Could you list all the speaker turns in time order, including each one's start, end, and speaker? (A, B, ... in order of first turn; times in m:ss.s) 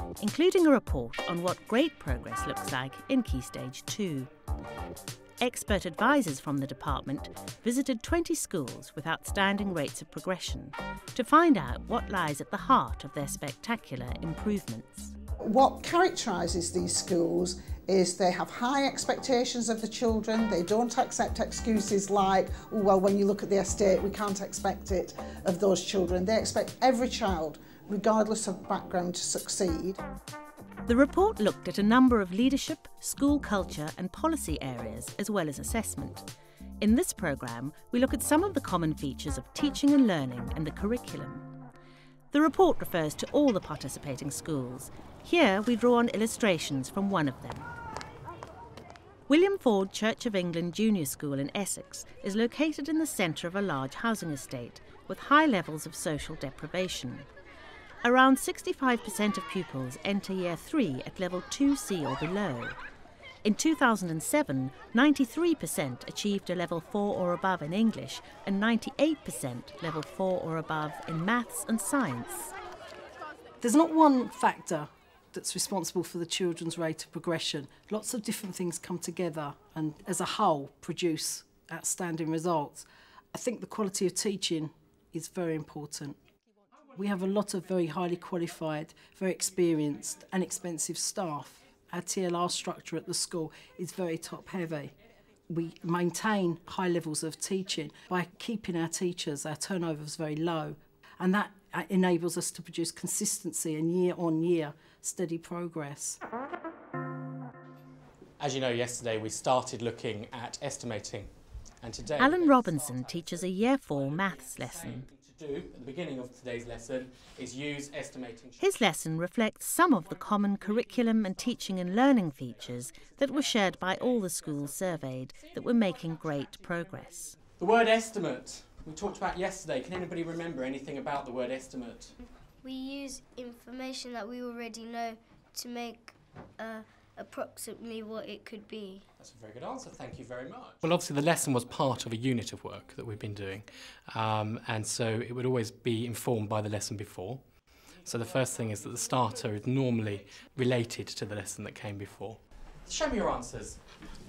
0:00.2-0:04.3 A
0:05.4-0:15.1 A
0:15.4-0:30.0 B
0:30.8-0:36.2 A
0:36.8-0:41.5 A
0:42.3-0:47.7 A
0:49.3-0:57.3 A
0:58.0-1:02.8 A
1:03.4-1:12.5 A
1:13.6-1:26.2 C
1:26.9-1:34.9 C
1:35.5-1:46.2 C
1:48.4-1:51.3 D
1:51.8-1:58.6 D
1:52.1-1:55.1 A
1:58.6-2:07.4 A
2:07.6-2:12.1 D
2:12.7-2:15.1 E
2:15.7-2:16.0 E
2:17.2-2:19.0 E
2:19.2-2:27.4 D
2:28.0-2:33.8 D